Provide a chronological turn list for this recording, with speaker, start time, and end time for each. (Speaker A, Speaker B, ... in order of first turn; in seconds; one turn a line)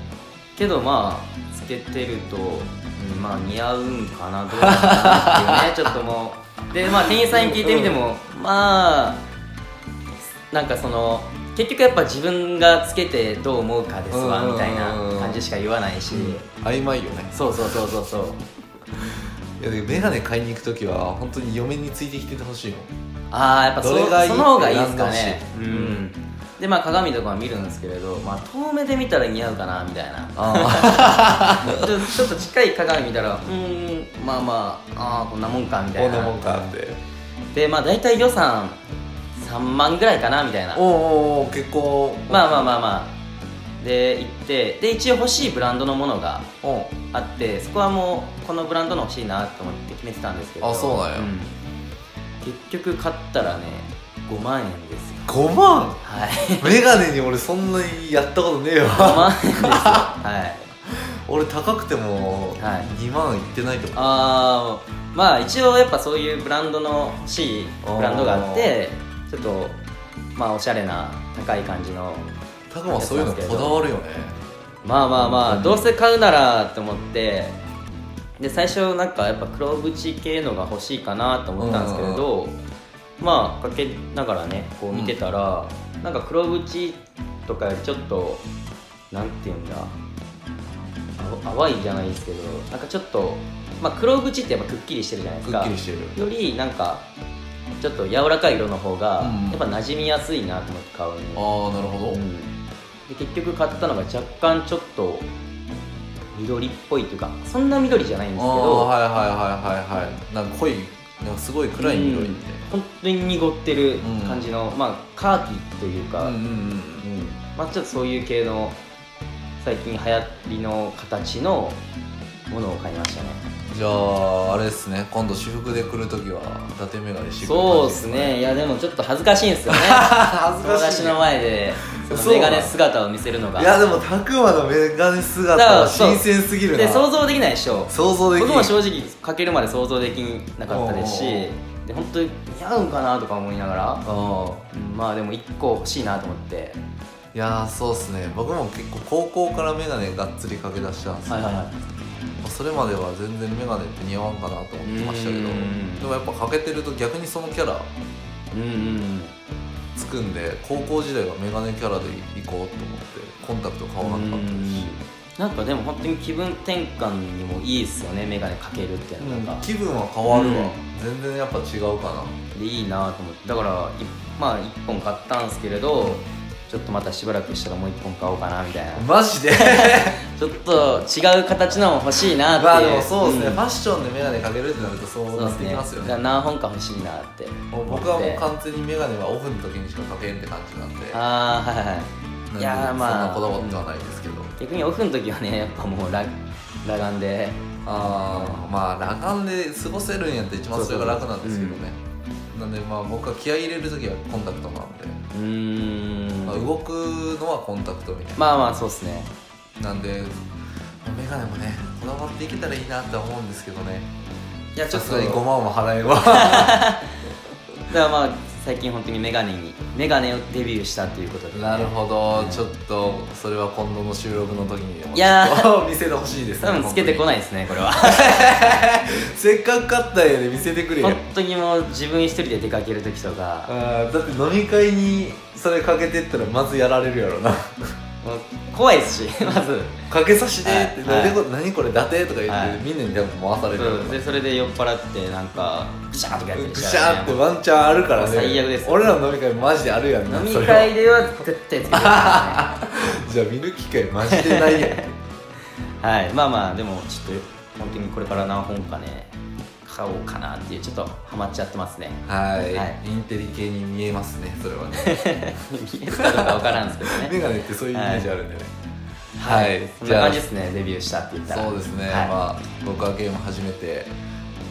Speaker A: 0.6-9.2
Speaker B: 4.6-5.9
Speaker B: 7.0-8.0
Speaker A: 10.5-16.4
Speaker B: 14.1-15.4
Speaker B: 16.1-18.3
Speaker A: 17.3-18.4
Speaker B: 19.6-22.9
Speaker A: 23.3-36.8
Speaker B: 23.8-26.0
Speaker B: 30.4-31.9
Speaker B: 36.0-37.0
Speaker A: 37.5-38.8
Speaker A: 39.4-40.8
Speaker B: 40.7-42.7
Speaker A: 42.3-43.1
Speaker A: 43.8-46.5
Speaker B: 46.6-47.0
Speaker A: 47.1-51.6
Speaker B: 50.6-51.3
Speaker A: 52.4-55.3
Speaker B: 55.2-56.0
Speaker A: 56.0-56.8
Speaker B: 56.6-60.2
Speaker A: 58.9-60.7
Speaker B: 60.9-64.2
Speaker A: 62.6-62.9
Speaker A: 63.9-69.8
Speaker B: 67.8-68.8
Speaker A: 70.3-72.3
Speaker B: 72.7-74.4
Speaker A: 72.9-73.8
Speaker A: 74.8-77.6
Speaker B: 75.1-75.9
Speaker A: 78.4-82.6
Speaker B: 81.6-82.3
Speaker A: 83.2-88.4
Speaker A: 89.1-89.9
Speaker A: 91.2-97.0
Speaker B: 95.4-96.2
Speaker A: 97.8-101.4
Speaker B: 99.2-99.6
Speaker B: 101.3-102.2
Speaker A: 102.1-102.5
Speaker A: 103.1-105.3
Speaker A: 106.3-108.9
Speaker B: 108.3-112.6
Speaker A: 111.8-116.4
Speaker B: 114.0-114.5
Speaker B: 116.2-117.1
Speaker A: 117.0-118.8
Speaker A: 119.6-121.8
Speaker A: 122.5-123.4
Speaker B: 123.7-128.4
Speaker A: 127.4-133.8
Speaker B: 129.7-131.2
Speaker B: 132.0-132.7
Speaker B: 133.6-137.1
Speaker A: 135.5-144.0
Speaker B: 137.9-138.8
Speaker B: 140.7-141.5
Speaker B: 144.0-144.6
Speaker A: 144.7-146.8
Speaker B: 147.3-151.6
Speaker A: 151.3-151.7
Speaker B: 152.4-157.9
Speaker A: 154.8-156.1
Speaker A: 158.5-159.3
Speaker B: 159.9-164.9
Speaker A: 164.0-169.6
Speaker B: 169.2-172.3
Speaker A: 170.3-170.8
Speaker A: 172.5-183.6
Speaker B: 178.9-180.2
Speaker B: 182.4-186.2
Speaker A: 185.3-188.4
Speaker B: 187.7-191.2
Speaker A: 191.1-193.8
Speaker B: 192.5-194.5
Speaker A: 194.6-198.6
Speaker B: 197.8-202.0
Speaker A: 200.7-201.8
Speaker B: 202.5-205.2
Speaker A: 205.3-206.7
Speaker B: 206.4-208.4
Speaker A: 208.4-209.3
Speaker B: 209.8-210.3
Speaker B: 211.0-214.1
Speaker A: 214.7-215.4
Speaker B: 214.9-216.8
Speaker A: 216.3-217.2
Speaker A: 217.9-222.7
Speaker B: 221.5-227.3
Speaker A: 225.1-225.7
Speaker A: 226.6-228.6
Speaker B: 227.8-231.2
Speaker A: 231.0-233.7
Speaker B: 233.7-237.9
Speaker A: 238.2-240.0
Speaker B: 240.1-244.2
Speaker A: 240.6-241.4
Speaker A: 242.5-242.8
Speaker A: 243.8-247.5
Speaker B: 246.5-250.9
Speaker A: 248.1-249.1
Speaker A: 250.3-252.7
Speaker B: 251.9-255.1
Speaker A: 254.3-255.1
Speaker A: 256.0-259.3
Speaker A: 259.8-263.0
Speaker B: 262.2-265.2
Speaker A: 265.0-267.4
Speaker B: 266.1-268.7
Speaker A: 267.9-268.3
Speaker A: 269.4-272.3
Speaker B: 269.4-270.4
Speaker B: 271.5-274.1